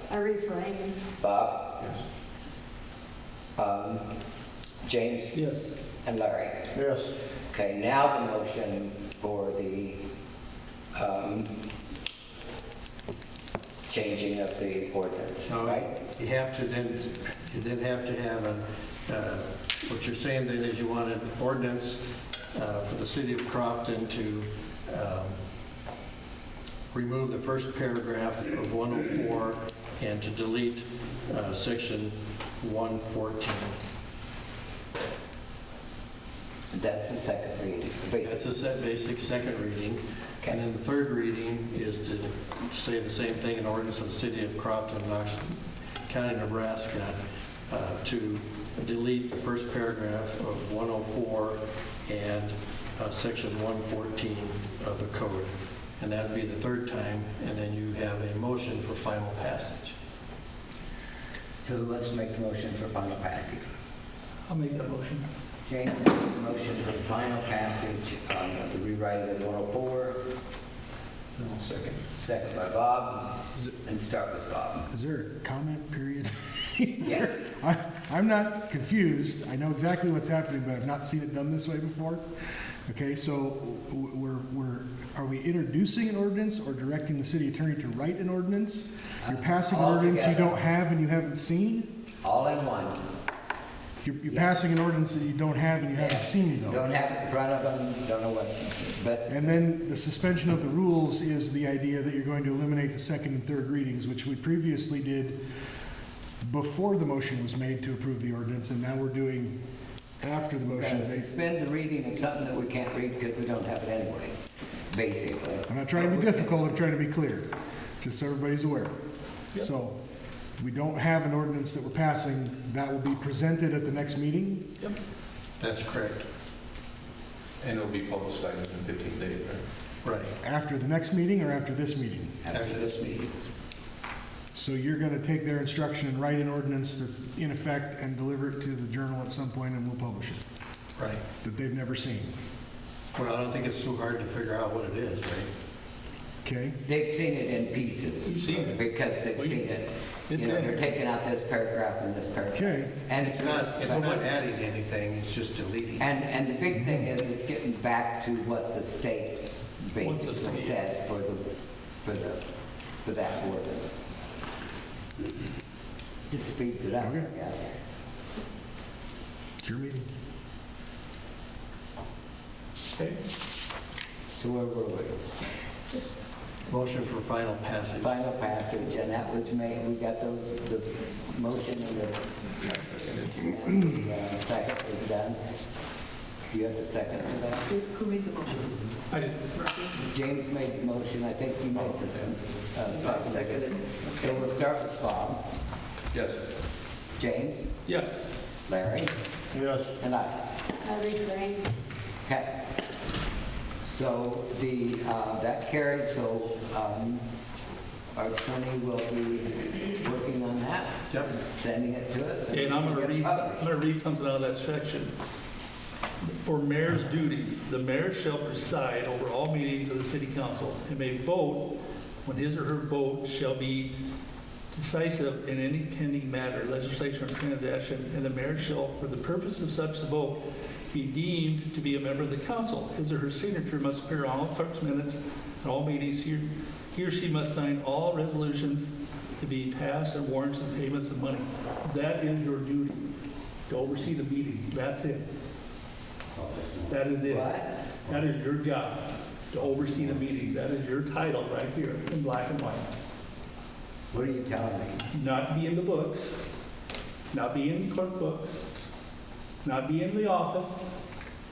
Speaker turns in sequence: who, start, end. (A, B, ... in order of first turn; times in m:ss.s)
0:00.1-0:01.0 A
0:01.2-0:01.7 B
0:03.6-0:04.0 B
0:04.8-0:05.4 B
0:05.4-0:05.8 C
0:06.0-0:06.7 B
0:07.5-0:10.0 B
0:10.9-0:11.5 B
0:13.9-0:15.9 B
0:15.5-0:25.4 D
0:26.9-0:33.8 D
0:36.7-0:38.4 B
0:38.2-0:47.2 D
0:47.7-1:00.0 D
1:01.6-1:03.7 B
1:04.5-1:05.2 C
1:05.7-1:10.2 B
1:11.4-1:12.0 E
1:12.2-1:14.9 B
1:14.9-1:22.2 F
1:17.0-1:17.3 B
1:22.9-1:31.9 F
1:29.2-1:30.6 B
1:32.2-1:33.0 B
1:34.0-1:36.8 F
1:34.3-1:34.5 B
1:36.0-1:39.5 B
1:39.3-1:45.4 F
1:46.4-1:49.5 F
1:50.2-1:51.3 F
1:50.7-1:54.3 B
1:54.9-1:56.6 B
1:55.7-1:57.5 F
1:58.0-1:58.9 F
1:59.6-2:00.0 F
2:00.6-2:04.6 F
2:05.6-2:06.2 D
2:07.6-2:09.6 E
2:10.0-2:10.3 D
2:10.4-2:12.4 F
2:12.4-2:13.3 B
2:12.5-2:12.9 D
2:14.6-2:20.4 F
2:21.0-2:21.2 D
2:21.4-2:22.3 F
2:23.1-2:25.5 D
2:26.4-2:26.8 F
2:26.8-2:34.3 B
2:28.2-2:28.8 C
2:29.4-2:29.6 C
2:30.3-2:30.9 C
2:32.6-2:33.0 F
2:33.2-2:36.1 D
2:36.0-2:41.4 B
2:36.8-2:37.0 F
2:40.0-2:40.8 C
2:42.0-2:42.4 B
2:43.0-2:44.0 B
2:46.3-2:47.7 B
2:47.0-2:47.3 F
2:49.6-2:50.1 F
2:54.4-2:55.2 B
2:56.7-2:58.1 D
2:58.0-3:02.2 B
3:02.6-3:03.4 E
3:03.4-3:05.4 B
3:06.5-3:07.7 B
3:07.7-3:08.8 A
3:09.1-3:09.4 C
3:09.5-3:09.9 A
3:10.0-3:15.4 B
3:11.8-3:12.2 E
3:13.0-3:14.4 A
3:16.1-3:16.4 E
3:17.2-3:17.7 B
3:17.9-3:18.2 C
3:18.7-3:19.1 B
3:20.0-3:20.3 B
3:20.8-3:21.7 A
3:23.8-3:27.2 B
3:28.2-3:33.7 B
3:32.5-3:35.1 C
3:36.4-3:41.7 C
3:42.2-3:43.9 C
3:44.7-3:50.4 C
3:50.9-3:58.9 C
3:59.4-4:03.1 C
4:03.7-4:05.2 C
4:06.4-4:07.8 B
4:06.9-4:12.9 C
4:14.1-4:15.0 B
4:15.1-4:16.3 C
4:17.3-4:18.6 C
4:19.6-4:20.9 C